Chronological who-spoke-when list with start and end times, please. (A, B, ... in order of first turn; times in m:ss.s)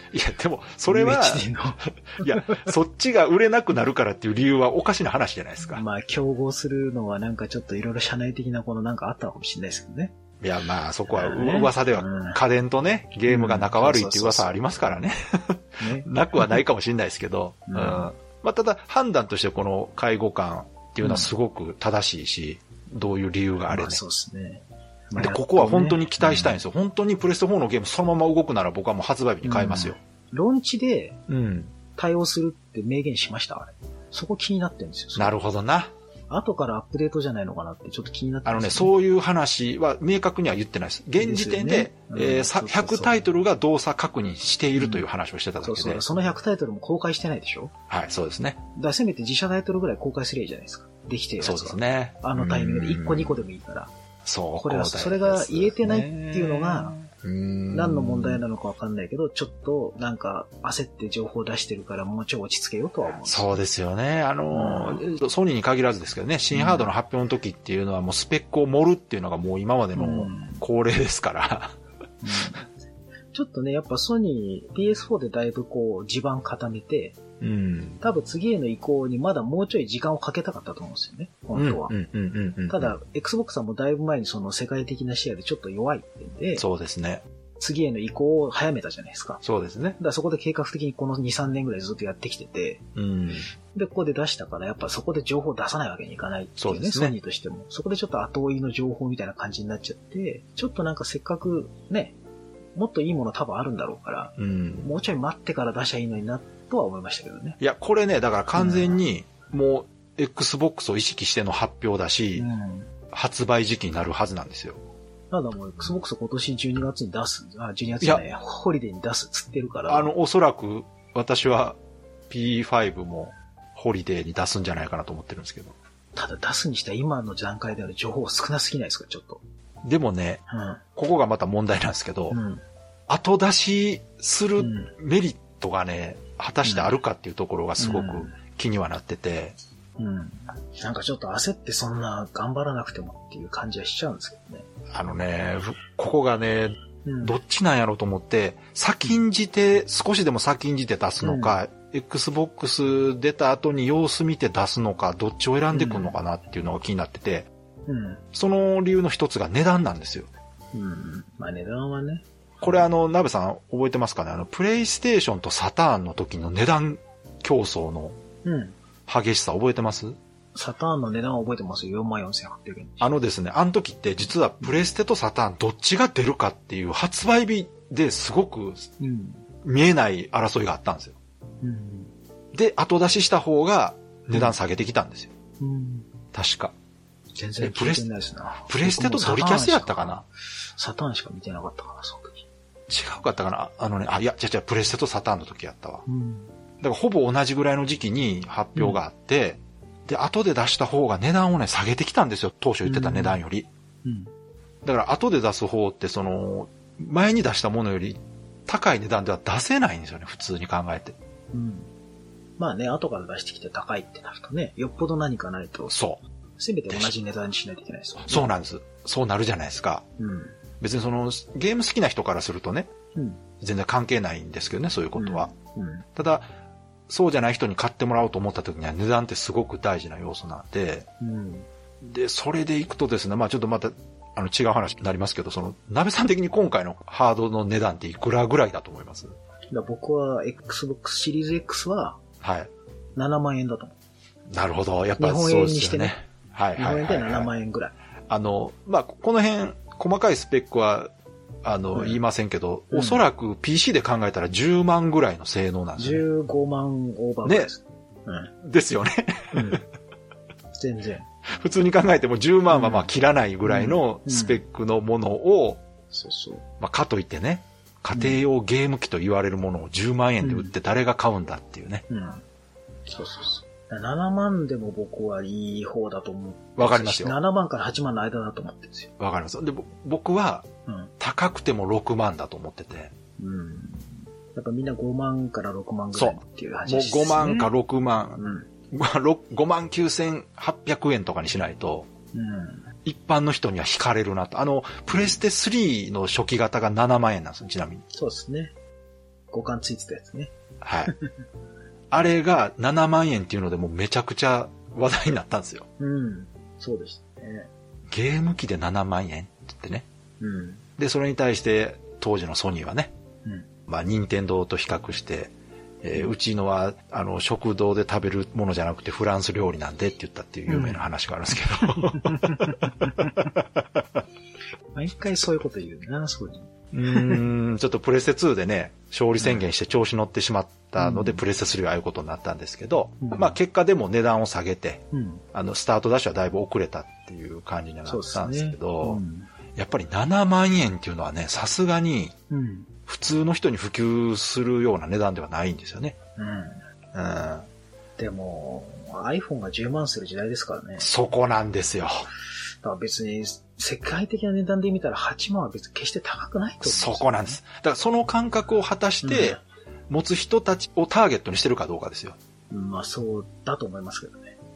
0:00.1-0:01.4 A
0:00.9-0:02.6 B
0:02.0-0:05.8 A
0:05.7-0:10.2 B
0:10.4-0:24.0 A
0:11.1-0:12.4 B
0:13.3-0:14.5 B
0:15.8-0:16.6 B
0:17.7-0:18.1 B
0:21.0-0:21.3 B
0:23.7-0:26.6 B
0:25.2-0:30.0 A
0:29.4-0:31.2 B
0:31.3-0:31.7 A
0:31.9-0:35.4 B
0:35.2-0:35.9 A
0:36.3-0:38.9 B
0:38.4-0:46.0 A
0:41.2-0:43.2 B
0:44.8-0:45.0 B
0:45.6-0:47.7 B
0:47.9-0:48.6 A
0:48.7-0:53.9 B
0:51.4-0:53.4 A
0:54.2-0:58.4 A
0:54.6-0:57.0 B
0:57.7-1:03.6 B
1:03.2-1:11.8 A
1:04.5-1:05.0 B
1:06.5-1:06.9 B
1:10.0-1:10.6 B
1:12.2-1:12.7 B
1:13.3-1:17.2 B
1:17.4-1:18.0 A
1:18.0-1:21.9 B
1:21.5-1:23.0 A
1:22.7-1:26.6 B
1:26.6-1:27.2 A
1:27.6-1:29.4 B
1:29.4-1:30.0 A
1:30.0-1:32.8 B
1:33.0-1:33.5 A
1:33.7-1:42.2 B
1:36.6-1:37.1 A
1:42.7-1:47.6 B
1:44.4-1:44.9 A
1:47.6-1:52.5 A
1:48.6-1:49.0 B
1:52.4-1:52.9 B
1:53.1-1:54.8 A
1:55.3-2:00.1 B
1:59.9-2:01.8 A
2:02.3-2:05.8 A
2:06.1-2:09.4 B
2:09.8-2:10.4 A
2:10.5-2:10.8 B
2:11.0-2:12.4 A
2:12.3-2:12.6 B
2:13.1-2:19.6 A
2:14.6-2:14.9 B
2:16.6-2:16.9 B
2:17.8-2:18.3 B
2:20.0-2:24.6 B
2:24.9-2:37.5 A
2:27.0-2:27.4 B
2:31.2-2:31.6 B
2:35.7-2:36.2 B
2:37.9-2:38.2 B
2:38.3-2:40.3 A
2:40.7-2:42.8 B
2:42.6-2:48.2 A
2:48.4-2:48.8 B
2:49.1-2:50.2 A
2:50.5-2:53.0 B
2:53.0-2:58.9 A
2:59.0-2:59.4 B
2:59.6-3:01.2 A
3:01.6-3:02.1 B
3:02.5-3:05.3 A
3:05.6-3:06.1 B
3:06.3-3:06.7 A
3:07.3-3:12.4 B
3:07.6-3:08.1 A
3:08.6-3:10.2 A
3:12.9-3:16.0 A
3:16.0-3:16.5 B
3:16.8-3:23.7 A
3:22.8-3:23.4 B
3:24.0-3:24.3 B
3:24.8-3:31.2 A
3:31.5-3:31.9 B
3:32.6-3:35.9 B
3:35.9-3:36.2 A
3:36.6-3:38.5 B
3:38.2-3:40.0 A
3:40.2-3:40.6 B
3:40.8-3:42.9 A
3:43.1-3:43.4 B
3:43.6-3:45.5 A
3:45.2-3:46.1 B
3:46.2-3:46.5 A
3:47.1-3:51.1 A
3:51.2-3:51.7 B
3:52.0-3:59.3 A
3:59.7-4:02.2 B
4:02.4-4:02.7 A
4:03.2-4:04.0 B
4:04.5-4:07.5 A
4:05.2-4:06.1 B
4:06.8-4:07.9 B
4:08.3-4:11.1 A
4:11.6-4:16.2 A
4:12.9-4:13.2 B
4:16.0-4:18.5 B
4:17.4-4:17.7 A
4:18.6-4:19.8 A
4:19.5-4:19.8 B
4:20.7-4:21.2 B
4:21.5-4:25.8 A
4:22.7-4:23.1 B
4:23.6-4:24.6 B
4:26.1-4:26.6 B
4:26.8-4:32.0 A
4:28.1-4:28.4 B
4:30.4-4:30.7 B
4:32.1-4:32.4 B
4:33.1-4:39.1 B
4:36.8-4:37.4 A
4:39.2-4:40.7 A
4:41.2-4:43.1 A
4:43.4-4:47.7 B
4:46.1-4:52.1 A
4:48.4-4:48.7 B
4:52.3-4:52.9 B
4:53.0-4:58.0 A
4:58.1-4:58.7 B
4:59.5-5:00.5 B
5:00.8-5:01.1 A
5:02.1-5:05.9 A
5:06.0-5:07.7 B
5:08.1-5:10.0 A
5:10.4-5:10.8 B
5:11.0-5:13.1 A
5:13.9-5:24.0 A
5:20.7-5:21.1 B
5:22.0-5:23.5 B
5:24.9-5:27.4 B
5:26.9-5:39.2 A
5:29.4-5:29.6 B
5:31.0-5:31.4 B
5:33.2-5:33.6 B
5:35.1-5:35.4 B
5:38.0-5:39.5 B
5:39.8-5:42.3 A
5:42.5-5:42.9 B
5:43.0-5:46.2 A
5:46.4-5:46.8 B
5:47.1-5:47.7 A
5:48.2-5:51.1 B
5:51.0-5:52.3 A
5:52.8-5:57.6 B
5:56.8-6:02.4 A
5:59.2-5:59.6 B
6:02.7-6:04.6 B